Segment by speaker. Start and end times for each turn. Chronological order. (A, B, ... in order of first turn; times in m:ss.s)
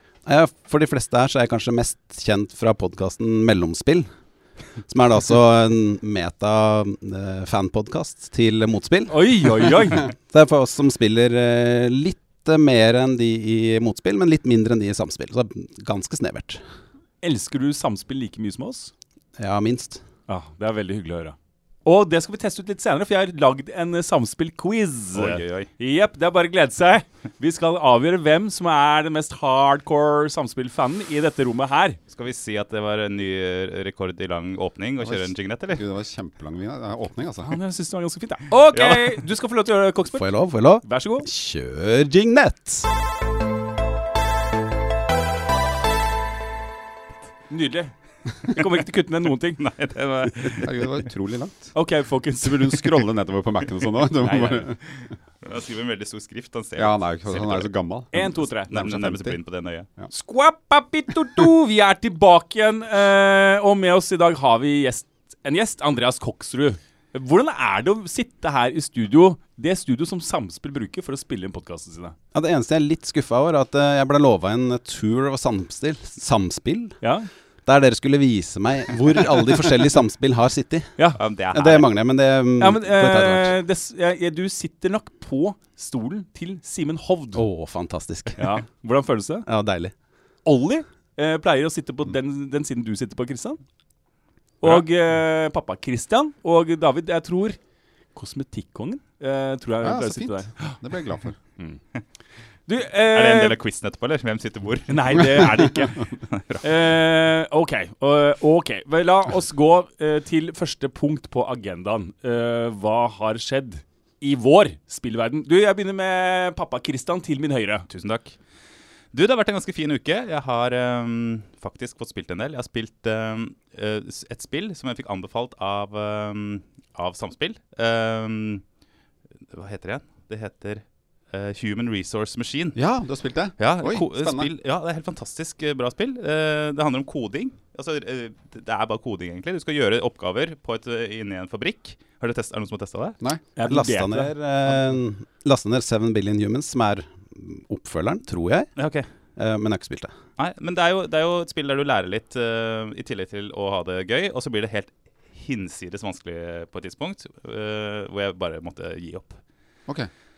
0:00.2-0:04.1 A
0:04.9-0:16.6 A
0:09.1-0:10.1 B
0:17.2-0:18.9 B
0:19.4-0:20.0 A
0:20.3-0:32.0 B
0:25.1-0:25.7 C
0:32.1-0:35.8 C
0:35.0-0:37.6 D
0:37.5-0:41.3 B
0:38.7-0:39.2 C
0:40.2-0:42.9 A
0:47.5-0:49.6 B
0:49.6-0:50.7 C
0:50.5-0:51.7 D
0:51.7-0:52.9 B
0:52.4-0:54.8 D
0:54.2-0:57.7 C
0:56.8-0:59.4 D
0:58.1-0:58.7 B
0:58.7-0:59.9 C
1:00.1-1:12.2 B
1:12.3-1:17.0 A
1:17.0-1:17.3 B
1:17.6-1:20.9 A
1:21.2-1:21.9 C
1:21.5-1:23.6 A
1:22.6-1:27.4 B
1:27.3-1:28.4 A
1:28.4-1:29.4 B
1:29.4-1:29.9 A
1:30.4-1:33.6 B
1:34.6-1:37.6 B
1:38.1-1:40.7 B
1:39.8-1:41.4 D
1:42.7-1:43.6 B
1:43.1-1:45.5 C
1:44.9-1:46.0 B
1:46.3-1:46.6 C
1:46.6-1:57.8 B
1:57.9-1:58.4 C
1:59.1-2:08.6 C
2:09.5-2:12.8 C
2:12.8-2:14.5 D
2:13.6-2:23.2 C
2:23.6-2:24.3 B
2:23.6-2:28.7 A
2:28.8-2:29.1 C
2:29.4-2:30.1 A
2:30.4-2:39.4 C